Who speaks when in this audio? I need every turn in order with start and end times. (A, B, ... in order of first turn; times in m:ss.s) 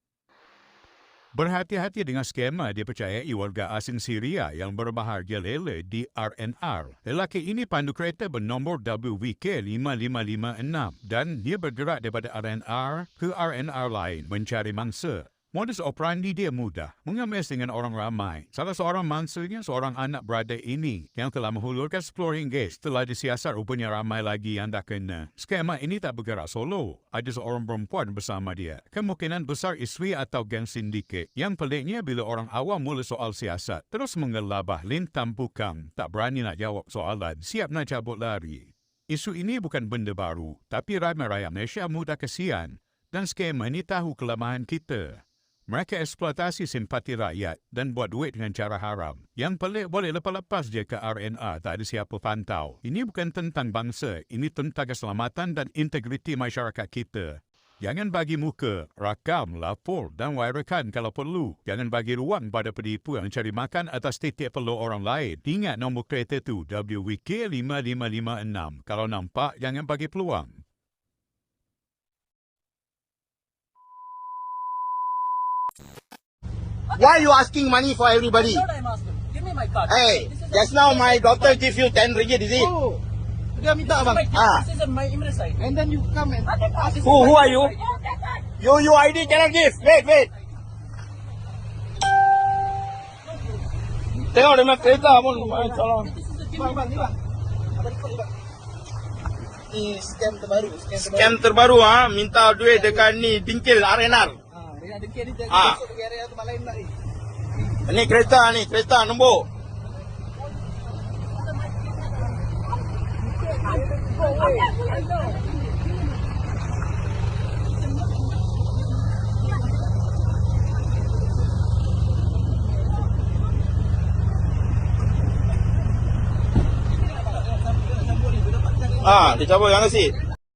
0:01.4-1:10.6 A
1:17.0-1:18.6 B
1:18.4-1:21.5 C
1:19.9-1:22.7 B
1:22.6-1:23.0 D
1:23.6-1:24.2 D
1:24.0-1:25.6 C
1:24.3-1:24.6 B
1:25.6-1:27.7 D
1:26.5-1:28.2 C
1:27.0-1:27.7 B
1:28.6-1:30.3 B
1:34.3-1:36.1 B
1:34.6-1:35.9 D
1:36.0-1:36.8 C
1:36.6-1:37.2 D
1:37.8-1:38.3 D
1:39.7-1:41.4 D
1:41.0-1:44.4 B
1:42.6-1:43.0 D
1:44.5-1:46.9 D
1:45.5-1:45.8 B
1:47.9-1:49.4 B
1:54.3-1:54.6 D
2:07.8-2:09.4 D
2:09.0-2:10.1 B